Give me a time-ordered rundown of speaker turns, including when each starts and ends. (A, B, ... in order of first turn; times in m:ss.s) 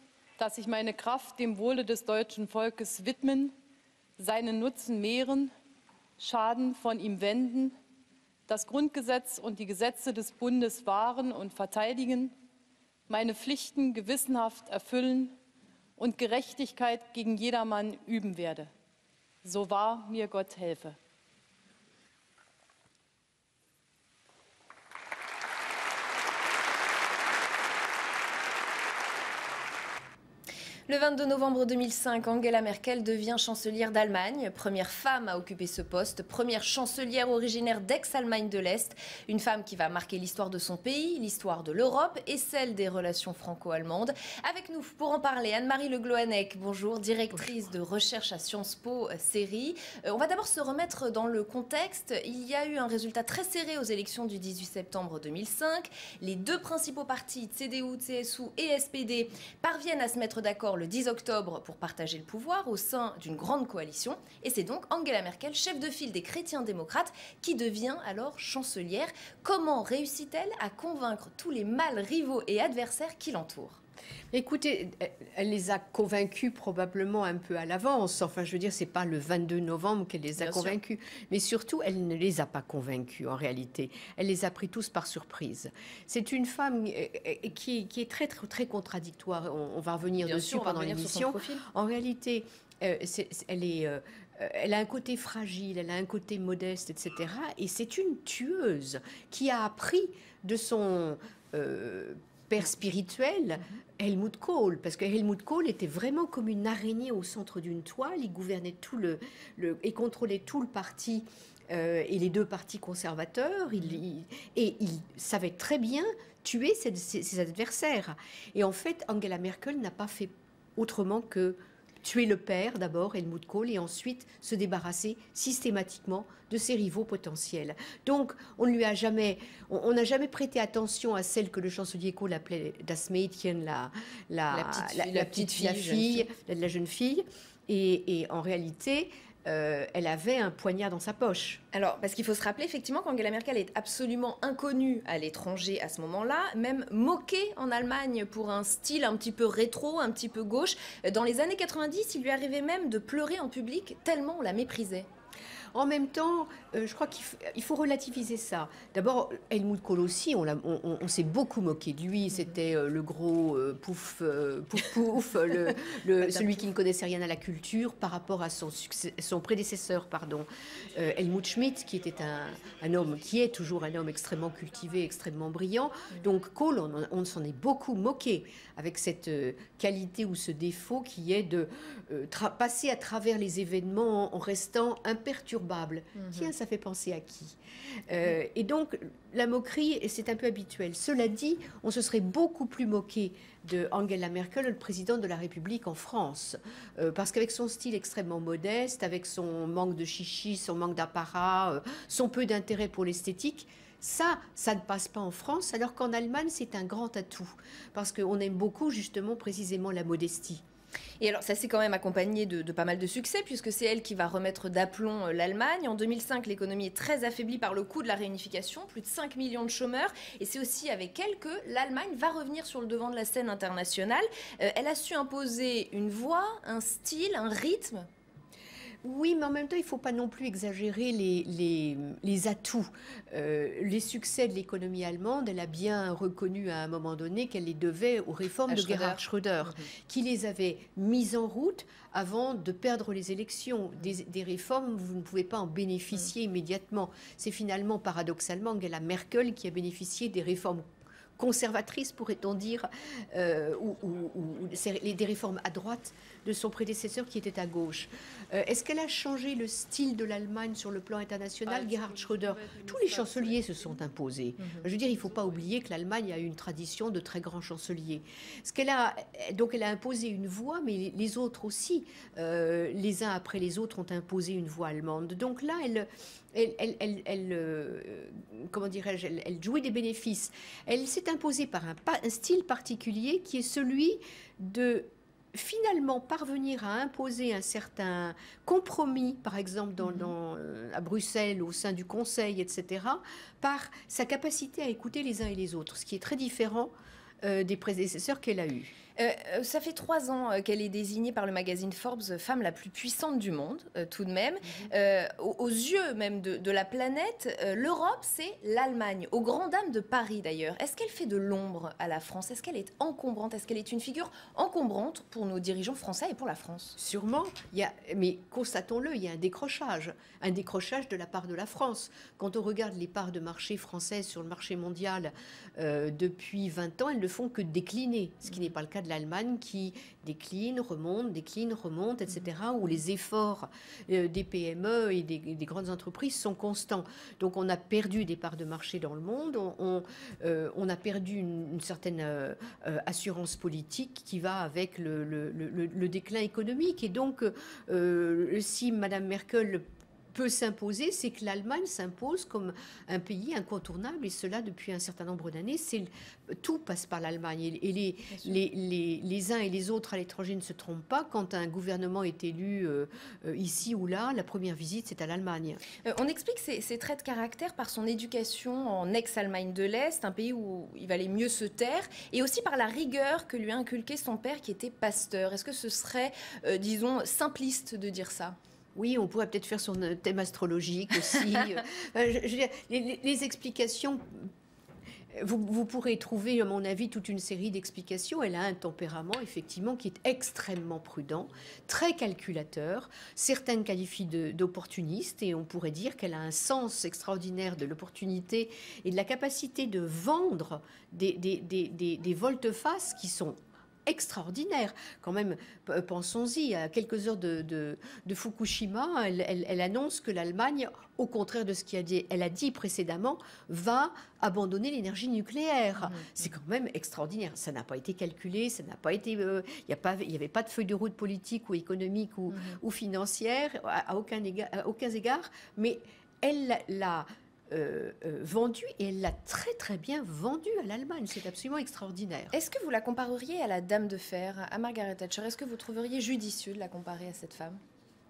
0:00.4-0:03.5 A
0:04.2-0:05.5 A
0:06.2-0:07.7 A
0:08.5-0:12.3 A
0:13.1-0:15.3 A
0:16.0-0:18.7 A
0:19.4-0:21.0 A
0:30.9-1:13.8 B
1:14.3-2:21.6 C
1:20.4-1:20.8 B
1:30.2-1:31.6 B
2:14.5-2:16.3 B
2:21.7-2:35.1 B
2:35.7-3:07.6 C
2:46.2-2:46.6 B
3:06.2-3:06.5 B
3:08.1-3:30.6 C
3:31.2-3:48.0 B
3:49.0-4:10.8 C
3:58.7-3:59.9 B
4:11.4-4:56.9 C
4:21.7-4:23.7 A
4:50.0-4:50.3 B
4:57.4-4:58.9 C
4:59.2-5:17.0 B
5:17.0-6:05.8 C
5:58.3-5:58.6 B
6:06.0-6:18.6 B
6:19.0-6:24.5 C
6:25.3-7:12.5 C
6:56.1-6:56.4 B
7:02.5-7:02.8 B
7:12.5-7:17.8 B